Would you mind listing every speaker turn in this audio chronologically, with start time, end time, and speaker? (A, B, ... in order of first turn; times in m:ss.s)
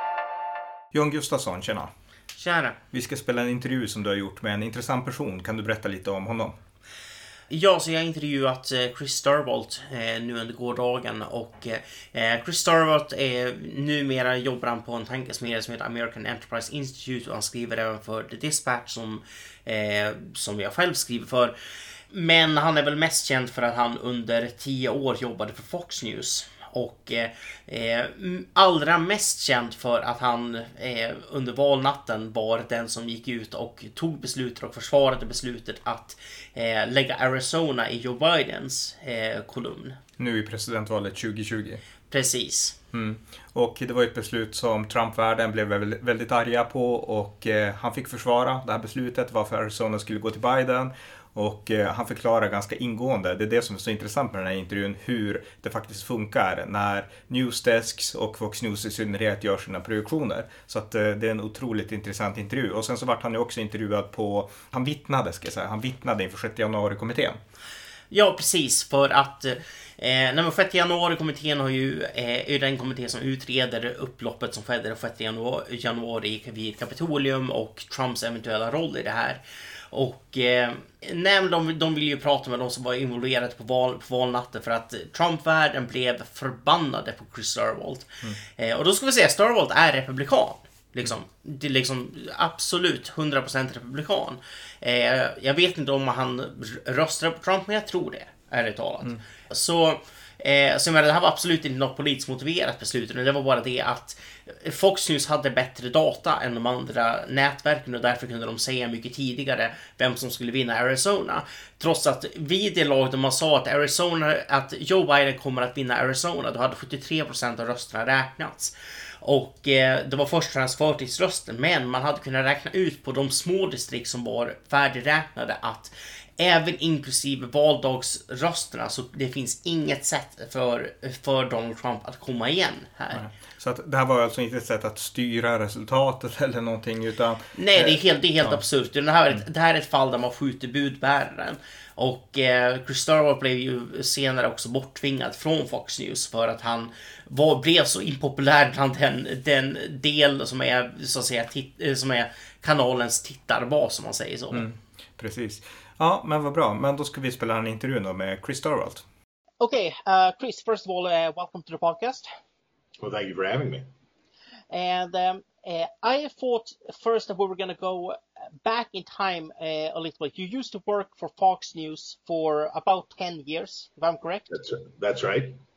0:00.9-0:01.9 A
0:02.4-0:02.8 B
0:02.9-0:06.6 A
0:07.5-0:21.5 B
0:22.1-0:40.0 B
0:40.2-0:41.8 A
0:42.1-0:42.8 B
0:42.9-1:07.4 A
1:08.1-2:13.2 B
2:13.1-2:18.6 A
2:17.6-2:34.6 B
2:34.5-2:39.0 A
2:39.6-2:42.3 C
2:43.0-2:43.9 D
2:44.7-2:54.5 C
2:54.5-2:55.6 D